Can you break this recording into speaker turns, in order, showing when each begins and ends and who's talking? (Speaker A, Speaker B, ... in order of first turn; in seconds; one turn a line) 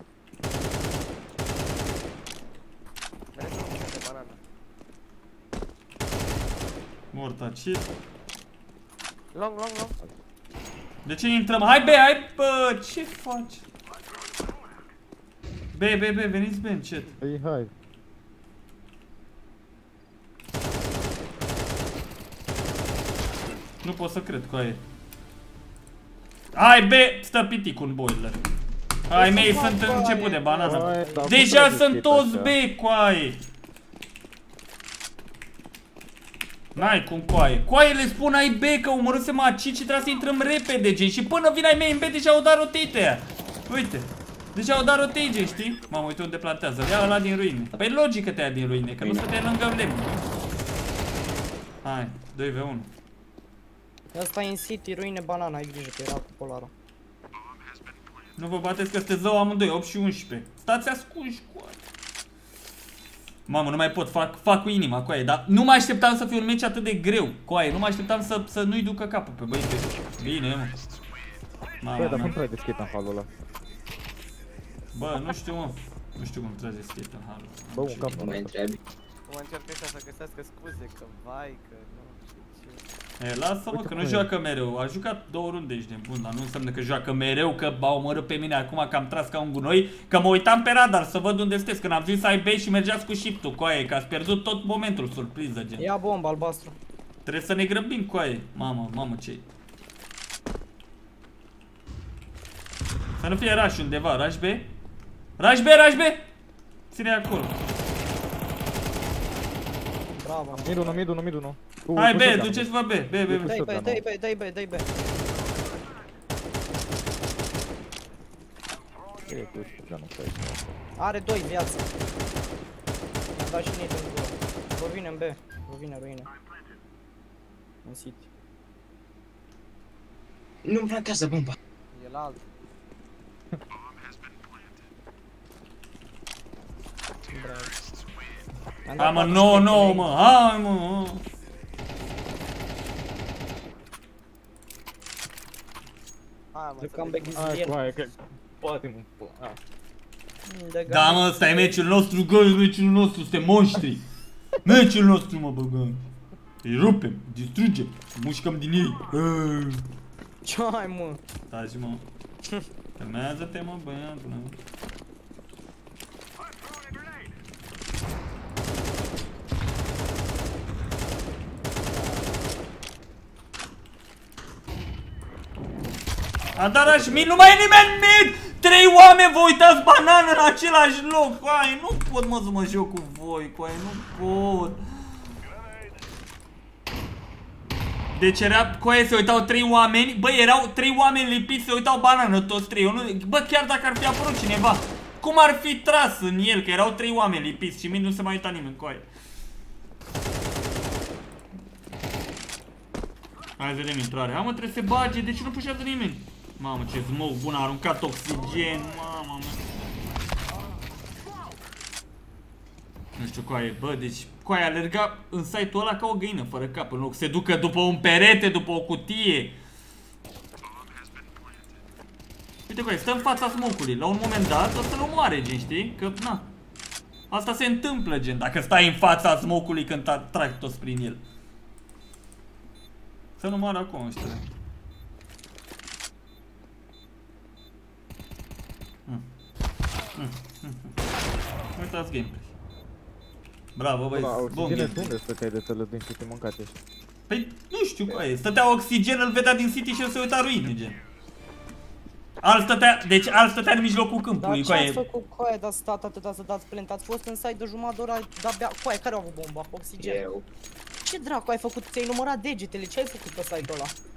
Speaker A: 3.3-4.4
Speaker B: 7.1-7.9
Speaker A: 9.3-9.9
Speaker B: 11.0-13.6
Speaker B: 15.7-17.1
Speaker C: 17.2-17.7
Speaker B: 23.8-24.8
Speaker B: 26.5-28.4
Speaker B: 29.1-33.4
Speaker D: 29.1-31.3
Speaker C: 30.6-32.5
Speaker B: 36.7-50.2
Speaker C: 49.0-49.3
Speaker B: 51.8-52.9
Speaker D: 54.1-56.7
Speaker B: 58.4-61.8
Speaker B: 63.5-70.7
Speaker B: 71.8-72.3
Speaker C: 72.0-73.3
Speaker B: 74.9-78.2
Speaker C: 77.7-78.5
Speaker E: 78.2-78.8
Speaker A: 79.3-82.8
Speaker B: 83.2-95.9
Speaker C: 83.7-84.3
Speaker D: 95.8-96.8
Speaker B: 97.2-99.5
Speaker B: 103.2-104.7
Speaker B: 105.4-106.2
Speaker B: 106.9-107.5
Speaker D: 110.2-111.0
Speaker C: 110.5-112.7
Speaker B: 111.9-113.6
Speaker C: 113.2-114.0
Speaker D: 113.4-114.9
Speaker C: 119.3-120.8
Speaker D: 121.0-121.9
Speaker D: 123.3-126.3
Speaker D: 127.8-128.2
Speaker E: 130.6-131.6
Speaker A: 131.9-132.4
Speaker D: 137.3-137.7
Speaker D: 138.8-140.1
Speaker B: 139.0-141.2
Speaker A: 146.5-147.5
Speaker D: 146.8-147.8
Speaker C: 147.3-149.6
Speaker D: 150.4-151.8
Speaker B: 150.9-154.0
Speaker B: 154.6-156.1
Speaker B: 156.6-159.8
Speaker D: 160.4-161.2
Speaker B: 161.5-162.0
Speaker B: 163.0-164.6
Speaker B: 176.6-184.8
Speaker C: 176.8-177.5
Speaker B: 188.1-199.1
Speaker B: 203.6-209.6
Speaker B: 213.2-219.6
Speaker B: 222.7-226.5
Speaker B: 227.3-231.2
Speaker B: 233.4-234.4
Speaker B: 240.2-240.9
Speaker B: 241.8-242.5
Speaker B: 243.8-245.1
Speaker C: 244.1-246.7
Speaker B: 247.3-251.0
Speaker B: 252.4-255.0
Speaker D: 254.4-260.2
Speaker E: 260.0-260.4
Speaker D: 261.0-263.9